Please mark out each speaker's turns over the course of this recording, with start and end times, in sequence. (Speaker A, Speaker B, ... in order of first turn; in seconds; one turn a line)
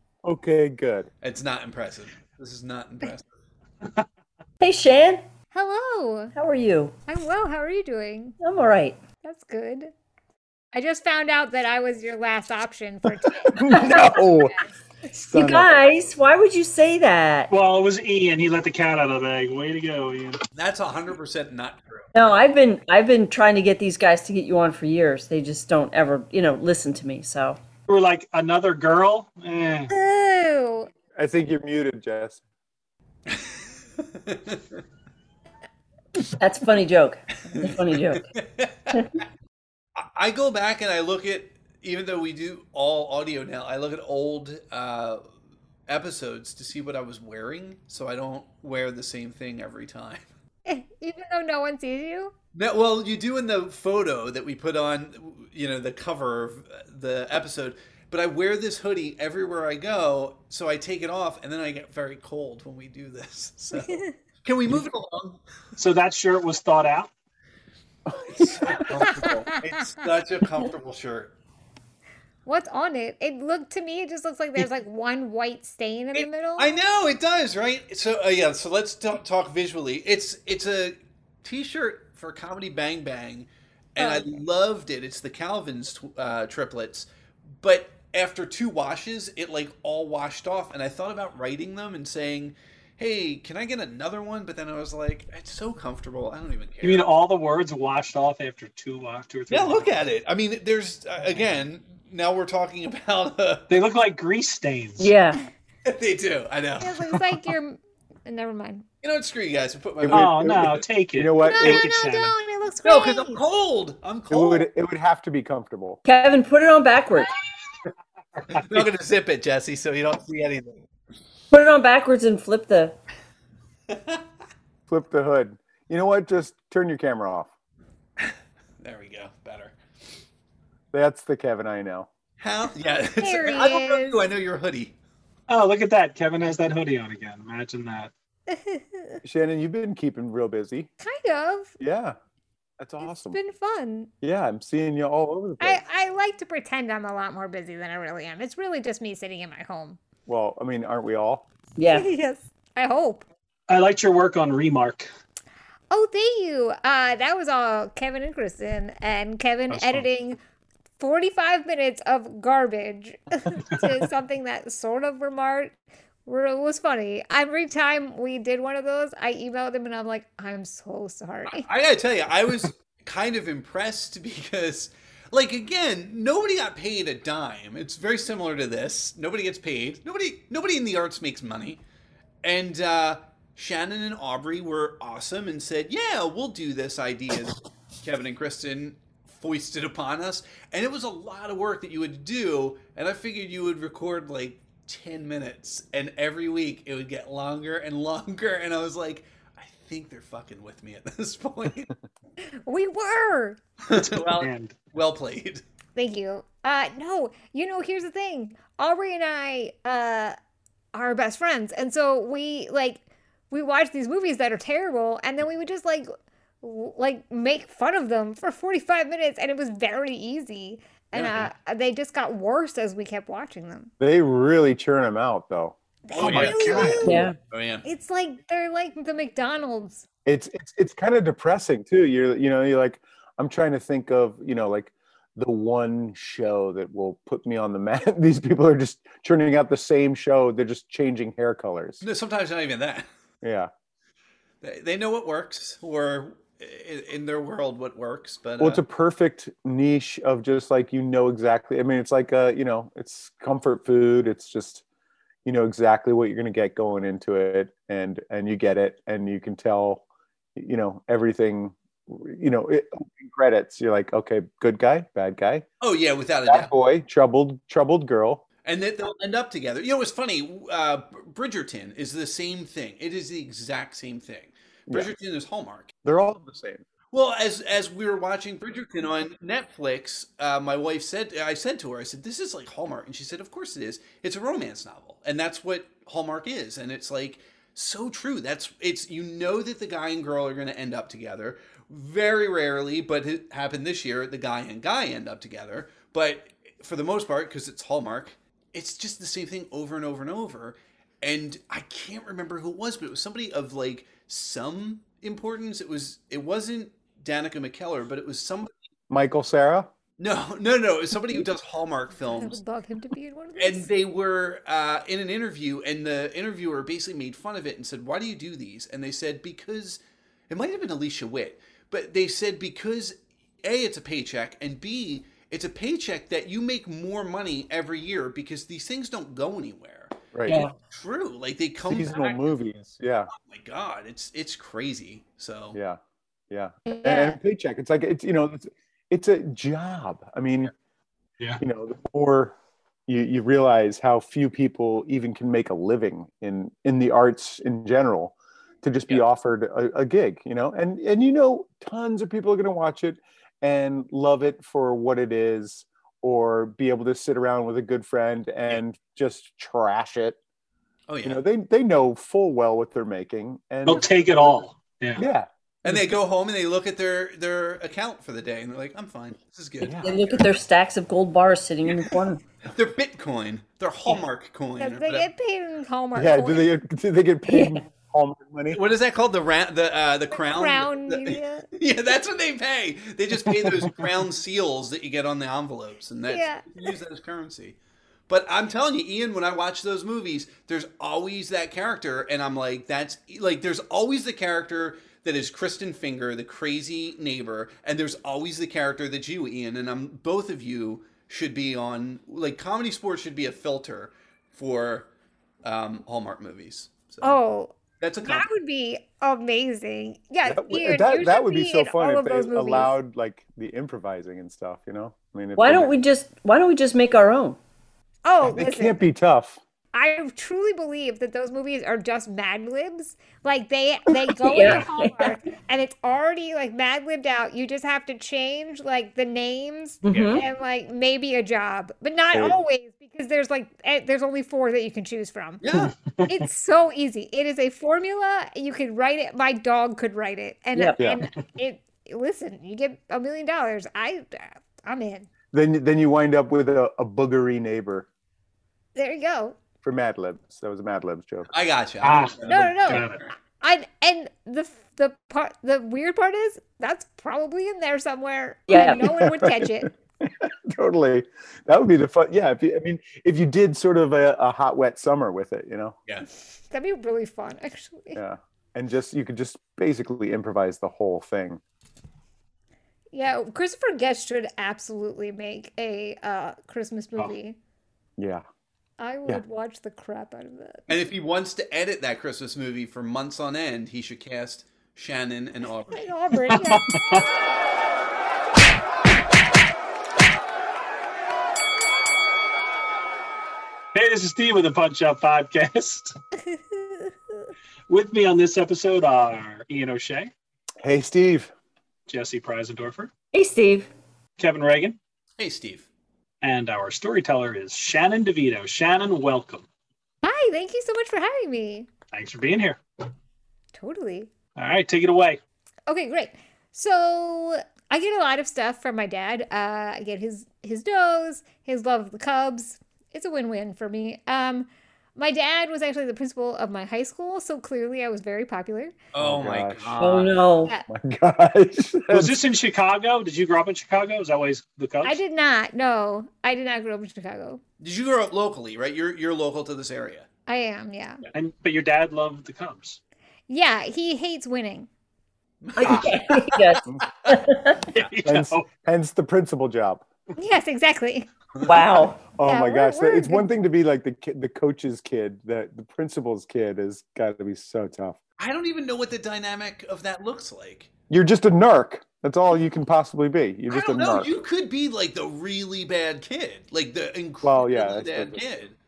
Speaker A: 0.2-1.1
Speaker B: 1.2-3.3
Speaker C: 4.6-5.2
Speaker D: 5.5-6.3
Speaker C: 6.3-7.0
Speaker D: 7.1-8.4
Speaker C: 8.4-9.0
Speaker D: 9.2-9.9
Speaker D: 10.7-14.5
Speaker A: 13.4-14.6
Speaker C: 13.7-14.2
Speaker A: 15.2-15.8
Speaker C: 15.2-17.5
Speaker E: 17.5-20.4
Speaker B: 20.5-22.1
Speaker C: 22.1-27.6
Speaker E: 27.9-29.9
Speaker D: 29.9-30.9
Speaker A: 31.1-32.4
Speaker B: 34.1-34.6
Speaker C: 36.3-38.2
Speaker B: 38.3-39.2
Speaker B: 40.0-45.2
Speaker B: 45.9-50.2
Speaker D: 50.6-52.3
Speaker B: 52.5-65.4
Speaker D: 63.8-64.1
Speaker E: 65.8-67.1
Speaker A: 68.1-69.3
Speaker B: 68.4-71.3
Speaker D: 68.9-69.3
Speaker D: 72.5-76.7
Speaker B: 76.1-87.1
Speaker D: 84.0-84.3
Speaker B: 87.6-97.0
Speaker E: 96.8-99.9
Speaker B: 99.5-103.7
Speaker E: 103.7-105.1
Speaker C: 105.0-105.4
Speaker B: 105.8-107.4
Speaker D: 106.8-108.8
Speaker B: 109.0-110.8
Speaker A: 110.0-111.9
Speaker E: 110.1-112.3
Speaker D: 111.4-113.4
Speaker B: 112.8-114.7
Speaker A: 114.3-116.0
Speaker C: 116.0-117.3
Speaker E: 118.4-118.8
Speaker B: 118.5-120.8
Speaker C: 121.5-123.0
Speaker B: 123.9-124.2
Speaker A: 124.9-127.5
Speaker B: 128.2-129.7
Speaker A: 130.9-132.1
Speaker B: 132.4-134.9
Speaker D: 133.2-134.3
Speaker E: 135.5-138.1
Speaker D: 138.5-139.2
Speaker A: 139.2-140.9
Speaker D: 141.0-141.7
Speaker A: 141.8-142.2
Speaker A: 142.8-143.4
Speaker D: 143.0-144.1
Speaker A: 144.2-145.8
Speaker D: 145.6-150.0
Speaker A: 150.2-151.5
Speaker C: 151.8-152.1
Speaker D: 151.9-153.2
Speaker E: 153.7-155.1
Speaker D: 155.9-160.4
Speaker E: 159.7-160.1
Speaker D: 161.0-165.7
Speaker D: 166.2-171.7
Speaker B: 171.4-181.8
Speaker B: 182.4-201.9
Speaker D: 202.7-203.6
Speaker B: 203.9-205.6
Speaker E: 203.9-204.8
Speaker D: 205.9-210.3
Speaker D: 210.9-216.1
Speaker D: 216.6-223.9
Speaker B: 221.1-221.5
Speaker A: 224.0-225.8
Speaker D: 226.1-227.3
Speaker B: 226.1-227.8
Speaker E: 226.2-227.3
Speaker C: 227.0-227.3
Speaker D: 227.8-230.0
Speaker A: 230.2-242.0
Speaker B: 242.0-243.1
Speaker A: 243.4-243.7
Speaker B: 244.6-248.8
Speaker A: 248.6-254.8
Speaker A: 255.4-260.0
Speaker A: 260.6-265.6
Speaker B: 265.8-266.7
Speaker A: 266.4-268.4
Speaker B: 268.6-275.9
Speaker A: 276.0-276.8
Speaker B: 277.1-308.7
Speaker A: 309.1-309.9
Speaker B: 310.2-312.6
Speaker D: 312.3-313.9
Speaker B: 313.6-330.1
Speaker A: 330.3-330.6
Speaker C: 330.5-330.7
Speaker B: 330.9-332.5
Speaker A: 331.9-333.3
Speaker B: 333.4-335.8
Speaker A: 335.7-336.0
Speaker A: 336.5-340.7
Speaker D: 336.9-337.4
Speaker A: 341.6-342.5
Speaker A: 343.1-360.4
Speaker B: 361.1-361.4
Speaker A: 361.2-364.5
Speaker E: 363.9-365.2
Speaker A: 365.1-365.5
Speaker B: 365.8-370.4
Speaker A: 369.8-370.2
Speaker C: 370.0-372.4
Speaker B: 372.7-375.3
Speaker D: 374.8-376.6
Speaker A: 376.1-378.8
Speaker B: 378.7-387.8
Speaker D: 380.3-381.6
Speaker D: 386.3-386.6
Speaker B: 388.3-405.1
Speaker B: 405.6-407.4
Speaker D: 407.2-412.9
Speaker B: 408.0-408.5
Speaker A: 410.4-415.9
Speaker C: 415.6-417.6
Speaker D: 418.2-419.0
Speaker A: 418.4-419.6
Speaker D: 419.9-435.6
Speaker C: 424.4-425.3
Speaker C: 430.0-430.4
Speaker B: 430.1-430.4
Speaker B: 435.6-435.9
Speaker E: 436.1-436.4
Speaker D: 436.2-445.3
Speaker C: 440.7-441.0
Speaker A: 445.5-448.1
Speaker D: 448.9-449.6
Speaker A: 449.8-451.5
Speaker B: 451.5-453.2
Speaker E: 452.0-453.2
Speaker D: 452.5-459.9
Speaker C: 458.7-459.1
Speaker A: 458.9-465.9
Speaker D: 466.7-468.2
Speaker A: 468.1-471.6
Speaker D: 473.1-477.6
Speaker A: 478.2-478.4
Speaker D: 479.0-480.9
Speaker B: 480.9-486.1
Speaker D: 485.9-486.9
Speaker E: 486.5-487.2
Speaker E: 493.9-496.1
Speaker D: 496.5-497.1
Speaker E: 497.9-500.3
Speaker A: 500.8-501.5
Speaker E: 502.1-503.1
Speaker C: 503.3-503.9
Speaker E: 504.4-505.0
Speaker B: 505.4-505.9
Speaker E: 506.4-509.7
Speaker D: 510.2-511.9
Speaker E: 512.1-512.8
Speaker D: 513.7-514.3
Speaker E: 514.5-515.4
Speaker D: 515.9-529.0
Speaker B: 529.1-530.4
Speaker A: 529.2-530.0
Speaker C: 530.0-530.7
Speaker A: 530.9-532.4
Speaker E: 532.1-535.2
Speaker D: 535.0-537.6
Speaker B: 537.8-540.3
Speaker D: 540.5-541.2
Speaker E: 541.3-543.0
Speaker D: 543.5-544.9
Speaker B: 545.6-547.3
Speaker C: 545.8-547.9
Speaker E: 547.9-548.6
Speaker A: 548.2-550.0
Speaker D: 550.4-551.3
Speaker C: 551.6-552.3
Speaker A: 552.3-558.2
Speaker D: 552.4-553.5
Speaker B: 558.4-560.9
Speaker A: 561.1-564.3
Speaker B: 563.7-568.8
Speaker A: 567.4-568.4